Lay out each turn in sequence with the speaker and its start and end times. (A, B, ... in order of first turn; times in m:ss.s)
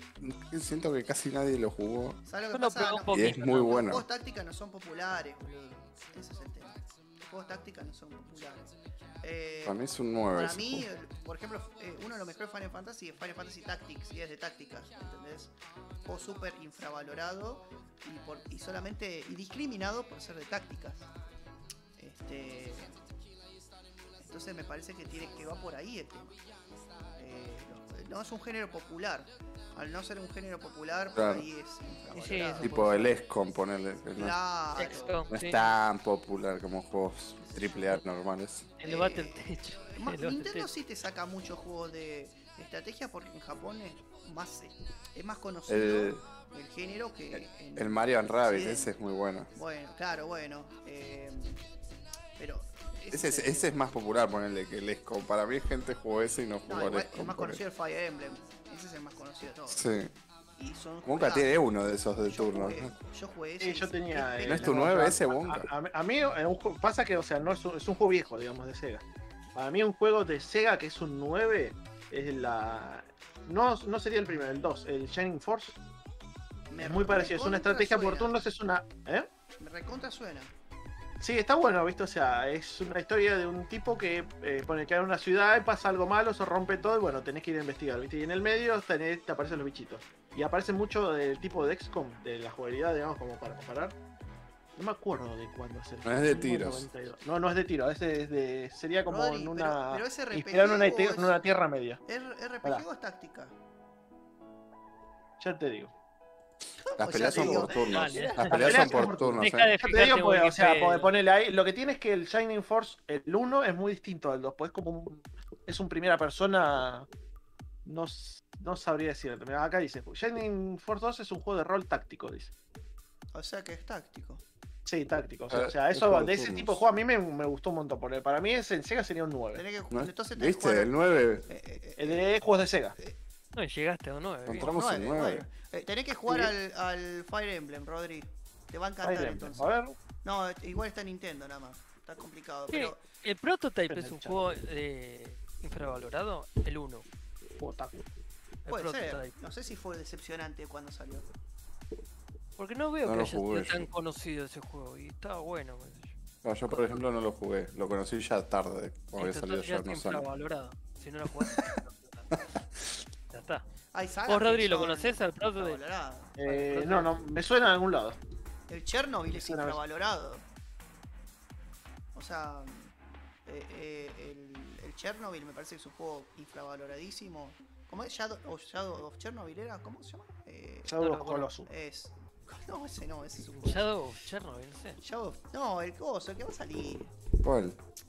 0:00.2-0:02.2 A
0:02.3-0:09.8 B
0:02.5-0:03.8 C
0:03.1-0:04.0 A
0:09.6-0:10.9 A
0:10.3-0:15.5 B
0:16.0-0:21.1 B
0:22.0-0:23.0 B
0:24.2-0:26.4 B
0:27.2-0:32.7 B
0:31.2-0:31.5 A
0:32.1-0:33.1 C
0:32.6-0:34.4 A
0:34.2-0:35.2 B
0:34.8-0:35.6 C
0:35.3-0:38.7 A
0:37.4-0:38.0 B
0:38.8-0:40.7 C
0:38.8-0:48.9 B
0:45.7-0:46.2 A
0:47.3-0:49.5 A
0:49.5-0:51.6 B
0:52.4-0:53.8 B
0:53.1-0:57.6 A
0:56.7-0:59.8 B
0:59.7-1:00.1 A
1:00.6-1:01.6 B
1:01.0-1:02.9 A
1:02.2-1:05.2 B
1:03.6-1:09.0 D
1:04.5-1:05.7 A
1:09.6-1:15.8 D
1:16.7-1:18.3 B
1:16.8-1:19.3 D
1:19.6-1:20.5 B
1:21.2-1:34.0 D
1:34.8-1:42.0 D
1:36.0-1:36.9 A
1:39.1-1:41.4 B
1:42.1-1:43.5 B
1:45.4-1:45.9 D
1:46.8-1:49.2 B
1:47.0-1:49.7 A
1:47.3-1:47.7 D
1:47.8-1:48.6 C
1:48.5-1:57.1 D
1:49.4-1:51.1 C
1:57.8-2:02.5 D
2:03.3-2:04.4 B
2:04.9-2:09.6 D
2:05.5-2:06.8 A
2:09.6-2:10.9 B
2:09.9-2:11.5 A
2:11.5-2:12.3 B
2:12.0-2:13.0 D
2:13.6-2:14.7 C
2:14.5-2:15.5 A
2:14.6-2:19.7 B
2:16.3-2:16.5 D
2:19.0-2:20.0 D
2:20.2-2:23.0 B
2:22.7-2:27.1 C
2:23.9-2:24.5 D
2:27.6-2:28.0 D
2:28.6-2:29.3 C
2:28.7-2:31.3 B
2:32.6-2:36.2 C
2:33.0-2:33.9 A
2:36.4-2:40.3 A
2:36.7-2:37.0 C
2:39.2-2:42.3 C
2:42.6-2:43.0 A
2:43.3-2:43.6 C
2:43.9-2:46.4 B
2:44.3-2:45.8 C
2:46.4-2:48.2 D
2:46.4-2:47.1 C
2:48.7-2:50.5 B
2:49.3-2:49.8 D
2:52.1-2:52.9 B
2:53.5-3:01.0 B
3:00.9-3:01.7 D
3:01.0-3:01.5 C
3:01.7-3:03.9 B
3:03.6-3:05.0 C
3:05.0-3:07.1 B
3:07.4-3:07.8 A